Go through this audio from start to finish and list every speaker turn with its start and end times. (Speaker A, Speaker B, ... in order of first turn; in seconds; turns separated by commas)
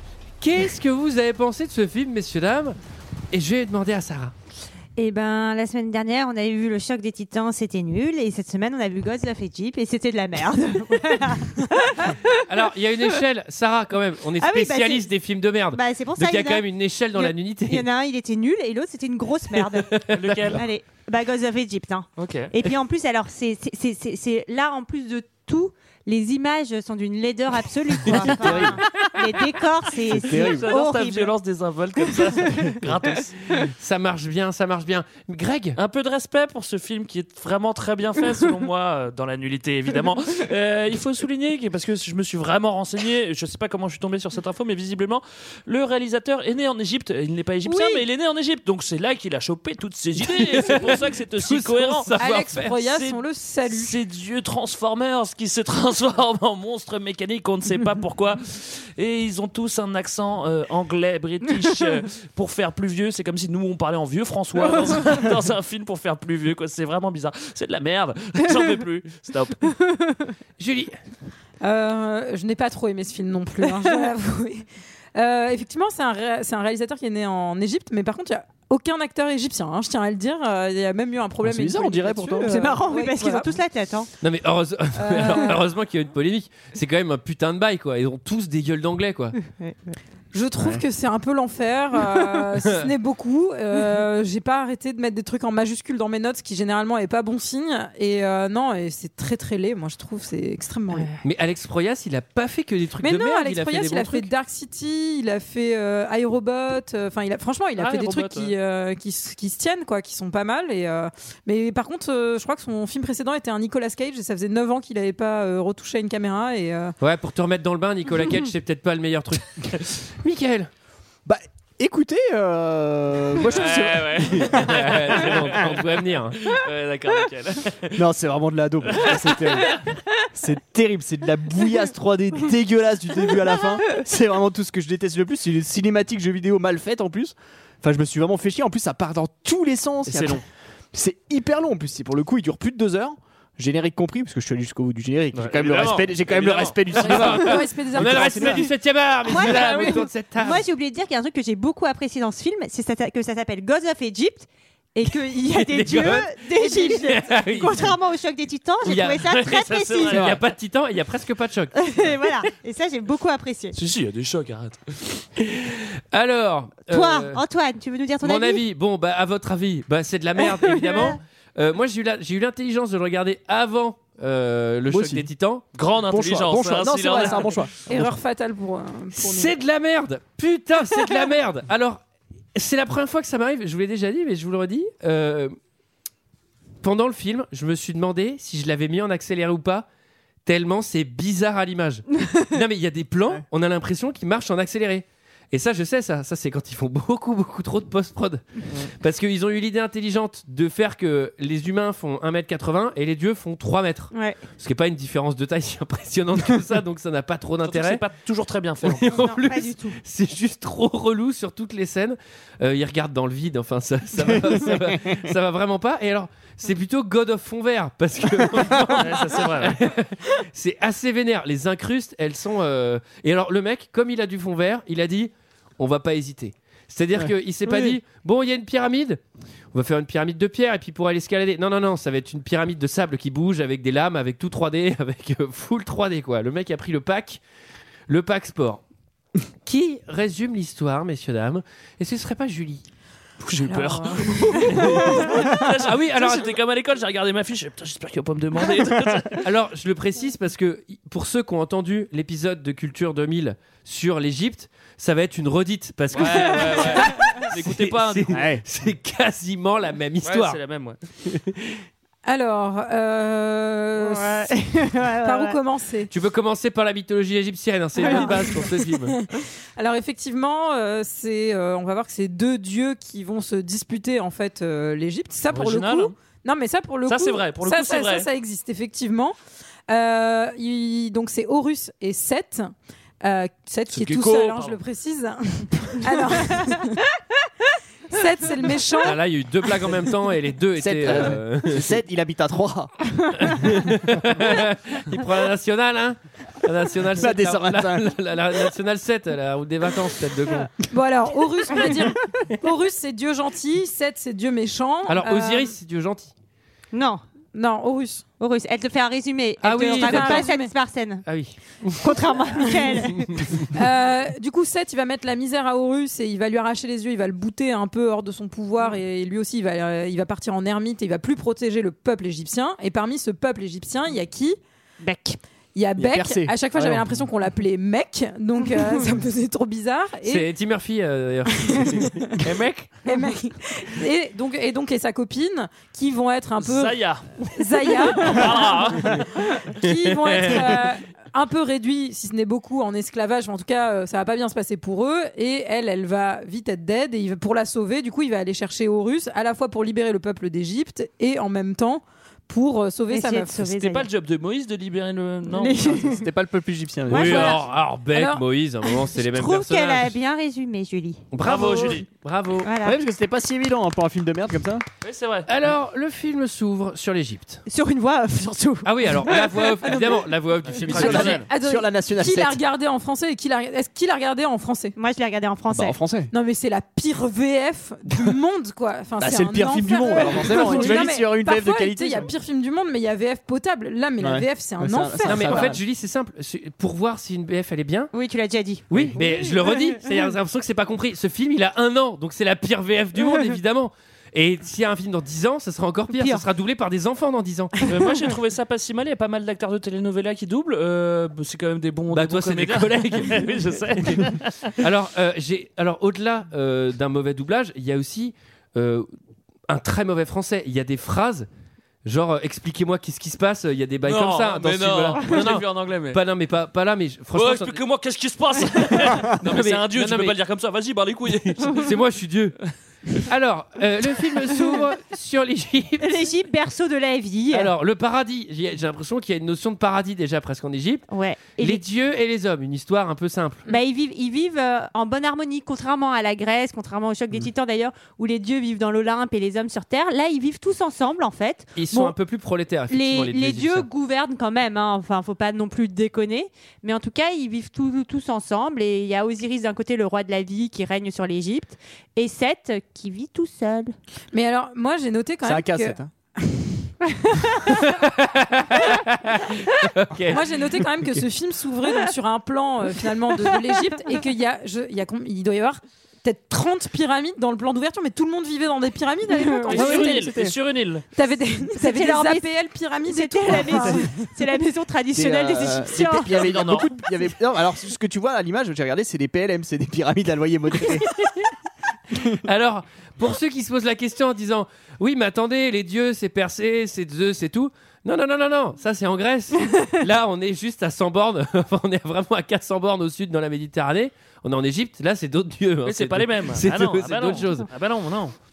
Speaker A: 0.4-2.8, Speaker A: 3.3-4.3, Speaker B: 5.0-12.2, Speaker A: 12.4-17.8, Speaker B: 14.4-15.1, Speaker B: 15.7-31.3, Speaker A: 19.9-20.4, Speaker C: 20.1-20.6, Speaker C: 22.2-22.5, Speaker D: 28.0-28.8, Speaker D: 30.1-30.7, Speaker C: 30.1-33.3, Speaker B: 32.1-32.7, Speaker A: 33.5-35.8, Speaker C: 35.8-52.1, Speaker E: 47.7-48.0, Speaker A: 50.6-52.8, Speaker E: 52.2-54.0, Speaker C: 52.7-69.8, Speaker A: 70.6-70.9, Speaker E: 71.6-74.6, Speaker E: 75.2-83.5, Speaker D: 81.4-82.8, Speaker B: 82.4-84.1, Speaker A: 84.2-89.3, Speaker E: 85.0-85.6, Speaker B: 89.4-90.0, Speaker E: 90.3-101.2, Speaker A: 101.2-104.3, Speaker E: 103.0-116.9, Speaker C: 107.8-108.5, Speaker A: 117.0-120.7, Speaker D: 121.2-125.5, Speaker C: 123.4-128.0, Speaker A: 124.5-126.4, Speaker D: 127.9-129.8, Speaker C: 128.9-129.8, Speaker D: 130.3-148.7, Speaker C: 140.1-140.4, Speaker C: 145.3-147.0, Speaker E: 147.0-148.7, Speaker A: 147.0-150.6, Speaker B: 149.2-160.3, Speaker A: 155.5-157.9, Speaker A: 158.8-159.3, Speaker C: 159.1-160.3, Speaker A: 160.1-162.0, Speaker B: 161.8-163.8, Speaker C: 163.7-165.2, Speaker A: 165.4-167.4, Speaker B: 166.9-168.6, Speaker A: 168.2-175.6, Speaker B: 170.4-171.2, Speaker D: 174.9-175.3, Speaker C: 175.7-177.7, Speaker D: 176.0-177.7, Speaker E: 177.9-179.5, Speaker A: 179.1-182.0, Speaker A: 182.5-185.5, Speaker A: 186.8-189.9, Speaker A: 190.4-208.0, Speaker B: 204.1-204.4, Speaker C: 207.6-209.0, Speaker A: 208.8-229.2, Speaker B: 209.1-209.9, Speaker D: 214.2-215.1, Speaker C: 218.9-219.8, Speaker D: 227.1-227.9, Speaker A: 229.7-237.4, Speaker A: 238.1-238.8, Speaker A: 239.6-242.8, Speaker C: 243.4-249.4, Speaker E: 243.6-245.3, Speaker A: 244.7-245.1, Speaker A: 245.6-246.5, Speaker A: 249.4-260.6, Speaker C: 256.1-258.4, Speaker D: 258.3-258.6, Speaker C: 260.2-261.0, Speaker A: 261.2-261.8, Speaker E: 262.2-264.5, Speaker B: 264.0-265.6, Speaker E: 265.2-266.1, Speaker A: 266.1-269.1, Speaker B: 268.0-268.4, Speaker E: 268.0-279.3, Speaker C: 275.5-276.1, Speaker C: 277.1-278.3, Speaker E: 279.9-287.4, Speaker C: 283.9-284.8, Speaker E: 288.1-289.2, Speaker A: 289.0-291.8, Speaker D: 290.8-292.9, Speaker A: 293.4-300.7, Speaker D: 297.2-298.1, Speaker E: 300.9-305.7, Speaker A: 305.1-306.3, Speaker B: 306.9-307.2, Speaker E: 307.5-308.2, Speaker B: 308.4-311.2, Speaker A: 309.6-310.5, Speaker E: 309.6-310.7, Speaker A: 311.2-312.1, Speaker B: 312.0-313.6, Speaker E: 313.6-324.6, Speaker B: 325.0-325.4, Speaker E: 325.7-330.5, Speaker D: 326.0-327.3, Speaker A: 330.2-332.2, Speaker E: 331.6-332.4, Speaker C: 332.4-332.9, Speaker E: 333.0-353.7, Speaker C: 336.6-337.3, Speaker C: 338.1-339.3, Speaker A: 339.8-340.8, Speaker B: 353.1-354.1, Speaker C: 353.6-356.2, Speaker B: 355.5-356.0, Speaker D: 355.9-357.6, Speaker B: 357.1-357.7, Speaker A: 357.1-360.1, Speaker E: 358.1-358.4, Speaker B: 359.1-361.2, Speaker A: 361.3-362.7, Speaker C: 361.4-362.1, Speaker B: 362.6-363.0, Speaker D: 362.8-364.8, Speaker C: 365.0-365.5, Speaker A: 365.5-367.6, Speaker B: 367.7-369.4, Speaker A: 368.8-371.4, Speaker E: 369.9-370.2, Speaker C: 370.6-371.4, Speaker D: 370.9-372.6, Speaker E: 371.0-374.9, Speaker B: 374.9-376.0, Speaker D: 375.7-376.3, Speaker E: 376.3-385.7, Speaker D: 379.2-382.3, Speaker D: 384.2-385.8, Speaker A: 385.2-388.1, Speaker B: 388.1-390.0, Speaker A: 388.9-397.7, Speaker B: 396.2-396.4, Speaker C: 397.9-404.7, Speaker A: 402.1-404.2, Speaker A: 404.8-409.1, Speaker A: 409.7-411.5, Speaker A: 412.0-417.8, Speaker C: 414.0-416.2, Speaker C: 417.3-421.9, Speaker A: 419.2-420.4, Speaker A: 421.6-422.5, Speaker A: 423.2-426.1, Speaker B: 426.0-427.7, Speaker A: 427.5-433.6, Speaker B: 431.1-431.8, Speaker B: 433.7-442.1, Speaker A: 441.8-443.9, Speaker B: 442.9-453.9, Speaker E: 454.3-457.8, Speaker D: 455.4-456.1, Speaker A: 457.6-461.1, Speaker E: 460.3-470.3, Speaker C: 469.7-471.0, Speaker D: 469.7-470.5, Speaker E: 471.1-474.3, Speaker B: 471.8-472.5, Speaker B: 473.0-476.5, Speaker D: 475.1-481.1, Speaker C: 476.3-477.0, Speaker D: 482.1-482.4, Speaker A: 482.4-497.7, Speaker C: 495.9-498.3